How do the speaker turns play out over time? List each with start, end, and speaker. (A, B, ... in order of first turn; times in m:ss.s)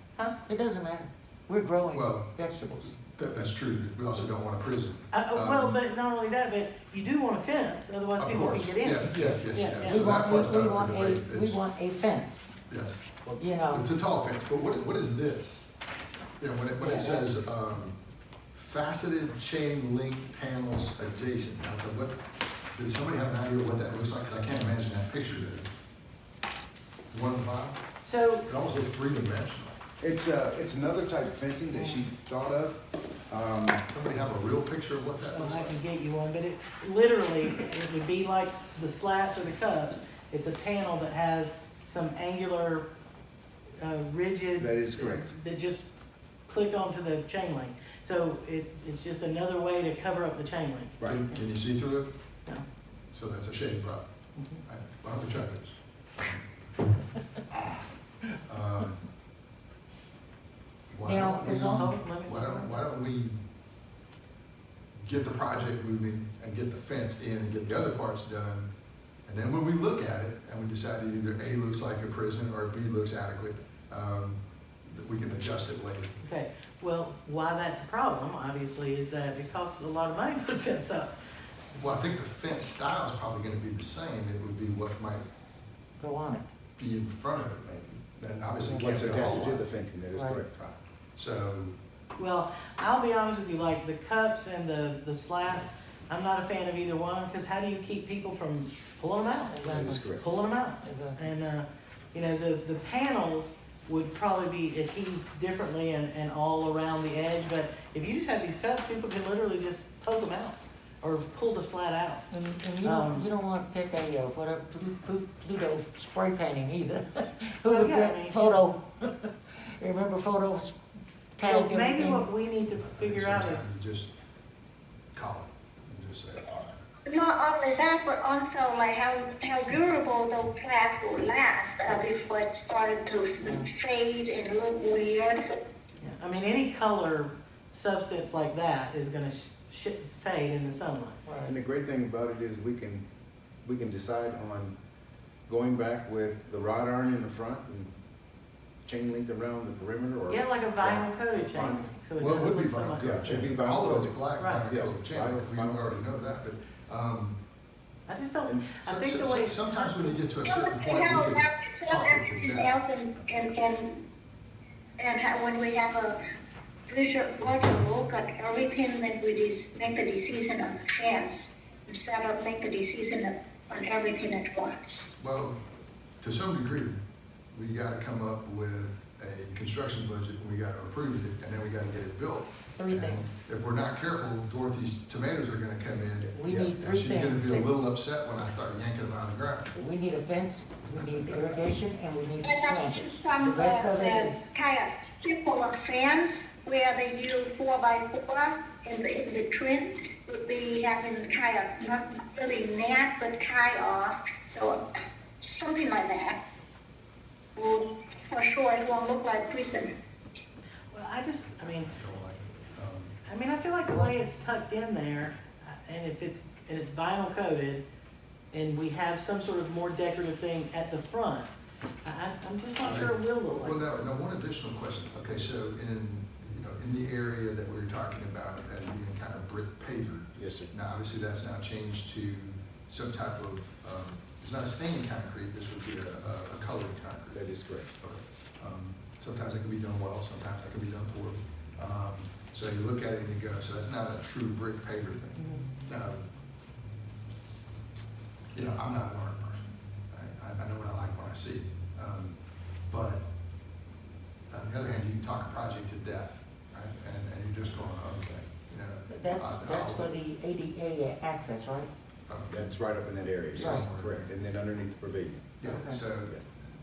0:00.4-0:03.0 A
0:01.9-0:02.4 B
0:02.9-0:05.8 B
0:05.1-0:10.2 C
0:08.2-0:11.6 B
0:09.1-0:12.6 A
0:12.7-0:13.0 B
0:13.4-0:13.9 A
0:13.7-0:15.7 B
0:16.4-0:18.0 B
0:16.8-0:17.3 A
0:18.5-0:22.2 B
0:22.8-0:25.7 B
0:27.1-0:27.8 B
0:28.0-0:28.5 C
0:28.5-0:29.8 B
0:30.0-0:33.8 D
0:31.7-0:32.1 C
0:33.9-0:35.8 B
0:35.3-0:42.9 C
0:43.8-0:45.9 C
0:44.6-0:45.3 D
0:46.5-0:51.1 C
0:51.0-0:52.2 B
0:53.1-0:54.1 B
0:54.4-0:54.6 C
0:54.6-0:56.4 B
0:58.5-0:59.0 B
1:00.9-1:03.4 B
1:01.0-1:02.0 A
1:01.3-1:02.9 C
1:05.0-1:08.7 B
1:09.3-1:16.1 B
1:16.2-1:21.1 C
1:21.7-1:25.2 B
1:26.0-1:26.4 A
1:26.8-1:29.6 B
1:28.6-1:29.0 A
1:28.7-1:30.5 D
1:30.1-1:30.4 A
1:30.5-1:31.8 B
1:32.2-1:39.6 C
1:39.5-1:40.2 A
1:39.6-1:40.2 D
1:40.2-1:52.2 C
1:40.8-1:41.2 A
1:52.3-2:00.8 A
1:52.8-1:53.3 C
1:57.7-1:58.6 C
2:01.4-2:02.3 A
2:01.4-2:03.6 C
2:02.7-2:04.1 B
2:05.2-2:06.8 B
2:07.1-2:15.4 E
2:13.4-2:13.7 A
2:16.0-2:21.2 C
2:21.2-2:21.6 A
2:21.4-2:23.0 D
2:23.6-2:24.8 D
2:25.5-2:27.9 D
2:28.8-2:31.8 D
2:30.3-2:33.4 C
2:32.2-2:37.4 B
2:33.0-2:36.0 D
2:34.4-2:34.7 C
2:38.1-2:40.2 C
2:38.5-2:38.7 D
2:38.8-2:42.8 B
2:40.5-2:44.0 E
2:45.0-2:46.2 E
2:46.9-2:51.3 E
2:51.9-2:55.0 E
2:55.2-2:55.6 B
2:56.2-2:57.0 B
2:57.5-3:09.7 B
3:02.8-3:03.4 A
3:06.3-3:07.7 A
3:09.7-3:14.5 A
3:10.9-3:11.2 B
3:12.4-3:24.8 E
3:25.6-3:26.4 E
3:27.6-3:29.9 E
3:30.9-3:32.0 C
3:31.5-3:33.2 B
3:33.3-3:37.8 C
3:33.9-3:34.2 A
3:38.5-3:41.5 C
3:42.0-3:43.9 C
3:42.8-3:57.4 B
3:50.4-3:50.7 D
3:57.3-3:57.9 D
3:58.0-4:06.2 B
4:05.4-4:05.7 C
4:08.5-4:13.2 B
4:14.5-4:20.1 B
4:19.1-4:21.9 A
4:22.3-4:22.8 B
4:22.5-4:25.6 D
4:23.5-4:24.6 B
4:23.6-4:23.9 A
4:25.6-4:26.4 B
4:25.6-4:26.0 A